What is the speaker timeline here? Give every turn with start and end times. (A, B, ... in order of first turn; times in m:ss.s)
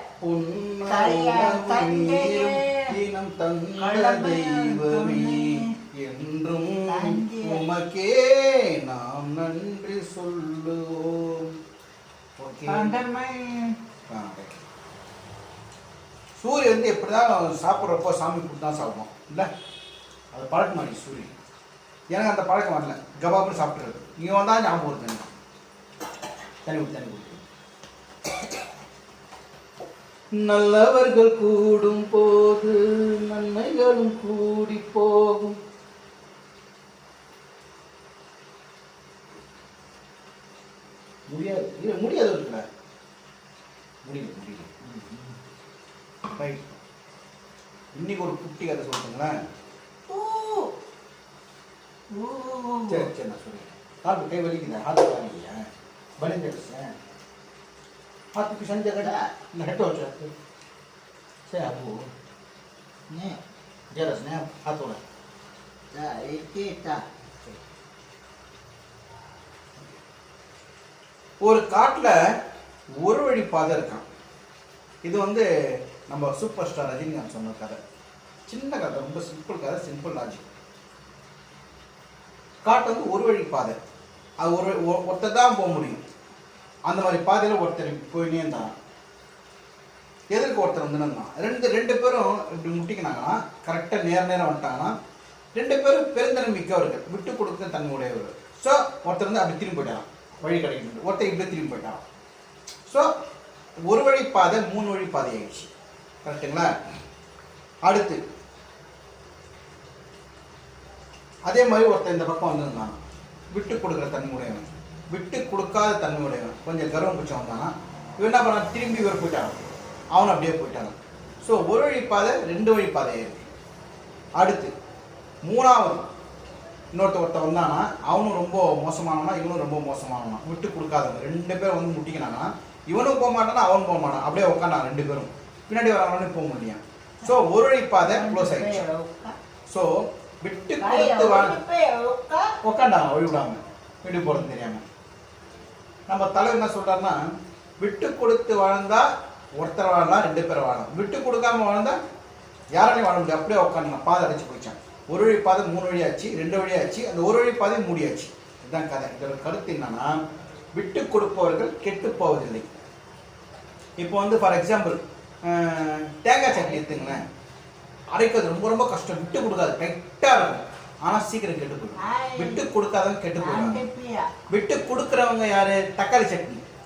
0:00.2-0:11.5 A
0:00.9-0:02.9 B
0:03.8-0:05.7 B
0:06.9-0:07.6 B
0:12.4-0:13.0 A
0:12.7-0:13.8 B
0:14.1-0:14.6 A
0:16.4-0:19.5 A
0:20.3-0:21.3 A
0:22.1-0:25.3 A
0:26.6-0:27.4 A
0:30.4-0:35.6 A
0:41.3-0:42.6 A
0:44.0-0:45.3 A
0:46.4-0:46.8 A
0:47.9-0:49.3 A
0:50.1-0:50.7 B
0:52.1-0:53.1 B
0:52.9-0:55.7 A
0:56.2-0:56.9 A
0:58.4-1:00.3 A
0:59.0-0:59.3 B
1:01.5-1:02.0 A
1:03.1-1:03.4 B
1:03.9-1:05.0 A
1:05.9-1:07.0 B
1:11.4-1:12.1 A
1:13.0-1:14.0 A
1:15.0-1:15.5 A
1:16.1-1:17.8 A
1:18.5-1:20.4 A
1:22.6-1:23.8 A
1:24.4-1:26.0 A
1:26.9-1:28.7 A
1:30.3-1:34.9 A
1:35.6-1:42.0 A
1:43.9-1:45.7 A
1:46.2-1:46.7 A
1:47.9-1:48.2 A
1:51.5-1:53.0 A
1:53.5-2:03.5 A
2:04.4-2:04.7 A
2:05.4-2:06.1 A
2:06.9-2:18.8 A
2:18.0-2:19.4 B
2:20.4-2:21.6 A
2:20.8-2:22.6 B
2:22.6-2:24.8 A
2:26.1-2:27.2 A
2:27.8-2:29.1 A
2:29.6-2:32.0 A
2:32.8-2:40.2 A
2:40.8-2:42.7 A
2:44.0-2:47.2 A
2:46.5-2:47.2 B
2:48.1-2:53.8 A
2:52.0-2:52.7 B
2:53.4-2:54.3 B
2:54.5-2:56.6 A